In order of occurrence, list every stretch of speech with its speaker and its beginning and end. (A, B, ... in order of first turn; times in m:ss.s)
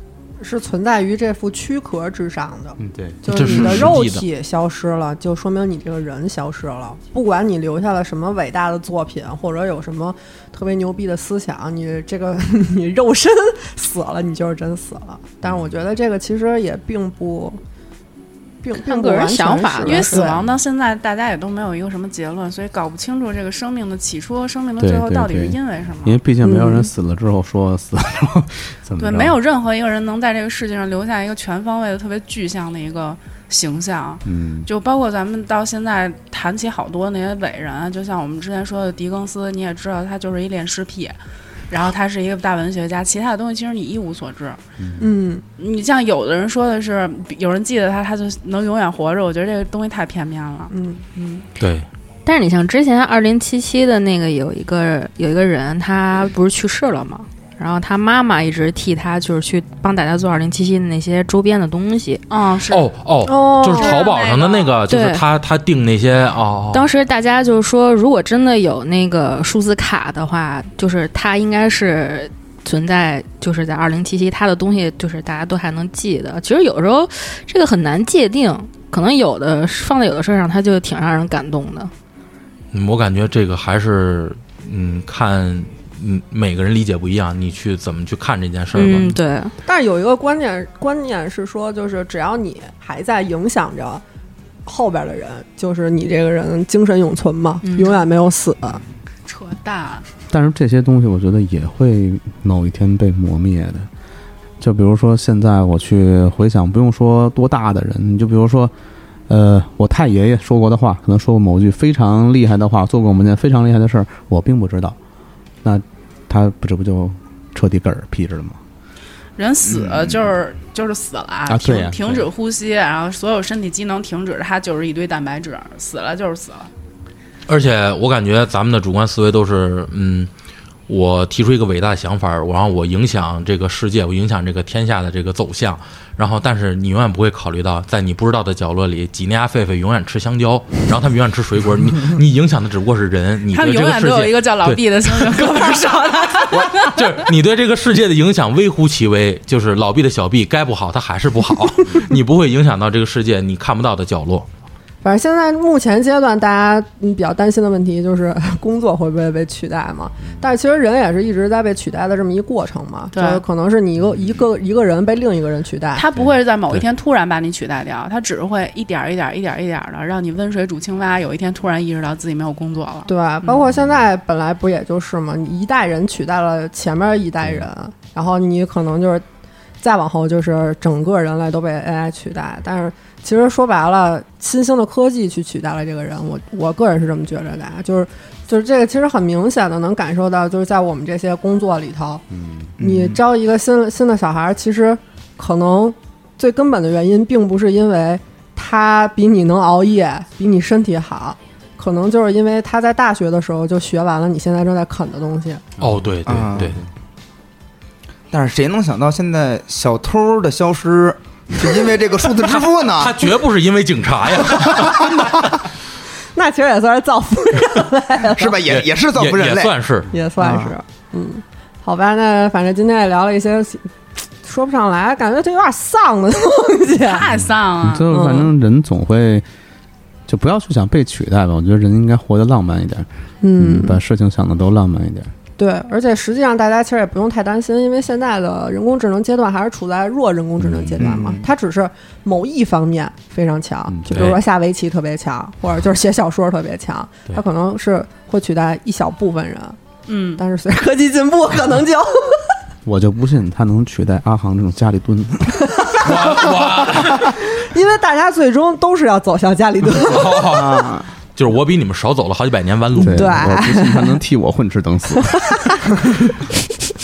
0:00.4-0:17.6 A
0:02.8-0:03.8 B
0:03.3-0:04.3 C
0:18.6-0:20.4 A
0:18.8-0:20.3 D
0:19.8-0:26.2 E
0:24.8-0:29.4 B
0:26.4-0:26.9 A
0:29.0-0:41.2 E
0:34.2-0:34.7 B
0:41.7-0:44.6 E
0:44.8-0:45.1 B
0:45.0-0:45.4 A
0:45.6-0:51.4 E
0:50.7-0:51.0 A
0:51.6-0:51.9 C
0:52.2-1:02.2 D
1:02.3-1:02.9 E
1:02.7-1:06.9 C
1:03.2-1:04.0 A
1:03.7-1:04.8 E
1:04.9-1:05.2 D
1:06.7-1:21.9 D
1:22.7-1:29.2 C
1:28.7-1:29.5 D
1:29.6-1:34.0 A
1:34.6-1:38.8 A
1:37.6-1:38.0 D
1:39.3-1:40.1 E
1:40.3-1:43.9 B
1:44.6-1:48.7 B
1:49.3-1:55.0 B
1:55.6-1:58.6 B
1:59.4-2:06.7 E
1:59.7-2:00.2 F
2:01.5-2:02.3 B
2:07.5-2:10.3 C
2:10.9-2:25.8 C
2:23.5-2:27.1 E
2:26.5-2:34.5 C
2:35.0-2:46.0 A
2:43.1-2:43.4 E
2:45.9-2:53.6 E
2:53.1-2:59.2 A
2:57.4-2:57.7 B
2:59.8-3:12.2 A
3:12.3-3:12.7 B
3:12.8-3:13.2 F
3:12.8-3:25.7 A
3:25.8-3:26.8 B
3:25.8-3:26.8 C
3:26.3-3:26.7 F
3:28.3-3:33.3 F
3:32.6-3:35.5 C
3:34.4-3:35.2 F
3:36.4-3:38.6 A
3:38.4-3:39.7 F
3:38.7-3:40.1 C
3:40.1-3:43.9 A
3:44.4-3:47.4 A
3:47.0-3:48.1 E
3:47.8-3:49.4 B
3:48.1-3:48.5 A
3:50.3-3:55.3 B
3:53.4-3:54.0 A
3:55.6-4:09.8 A
4:00.6-4:01.3 B
4:01.0-4:01.4 F
4:03.9-4:04.4 B
4:04.1-4:04.4 C
4:10.1-4:10.4 E
4:10.4-4:12.5 A
4:12.8-4:15.7 B
4:15.7-4:16.4 A
4:16.0-4:17.4 C
4:17.1-4:20.4 A
4:19.9-4:23.4 C
4:20.5-4:21.1 F
4:23.0-4:25.4 B
4:23.0-4:24.2 A